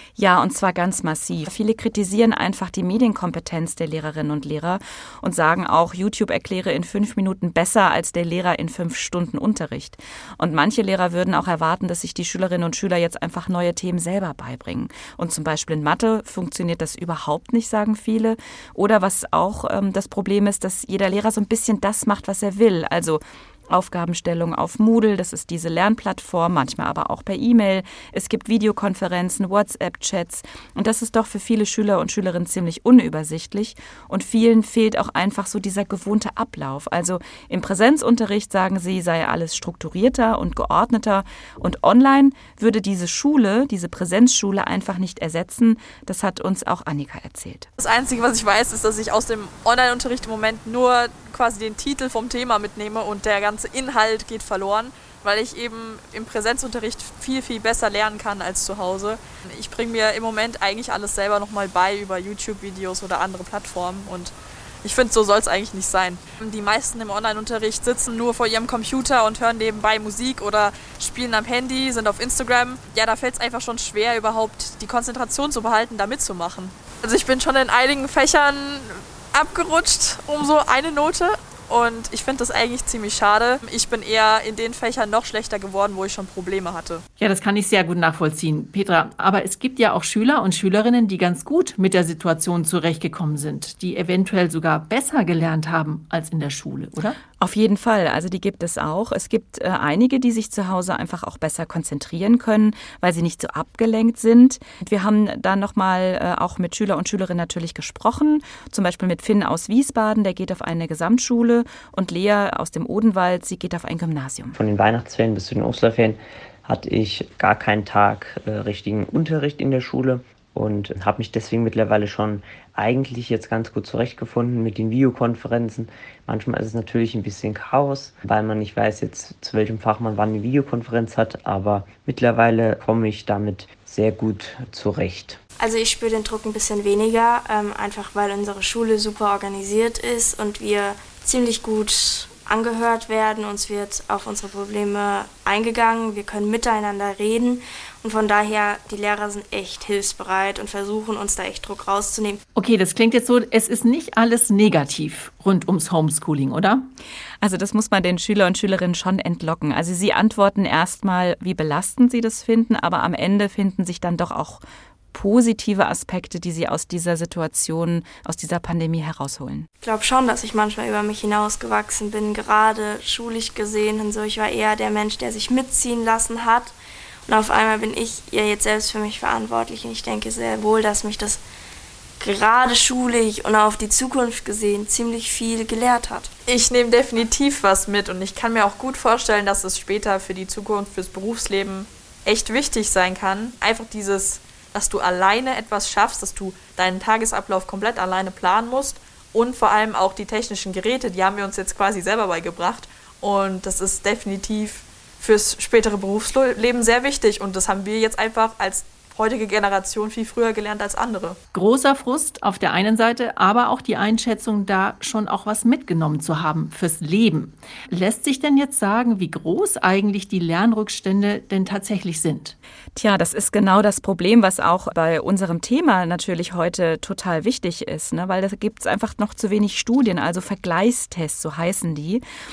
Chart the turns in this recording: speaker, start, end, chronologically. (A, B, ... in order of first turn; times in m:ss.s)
0:00.2-0:47.7 A
0:47.8-1:27.0 B
1:27.2-1:37.2 C
1:37.4-1:54.6 A
1:54.5-2:15.4 D
2:15.6-2:32.4 E
2:32.6-2:36.8 C
2:37.4-2:44.6 A
2:45.1-2:49.7 A
2:49.8-2:56.8 E
2:57.3-3:01.4 E
3:02.2-3:06.3 E
3:06.4-3:31.4 B
3:31.5-3:42.6 C
3:43.0-3:52.2 A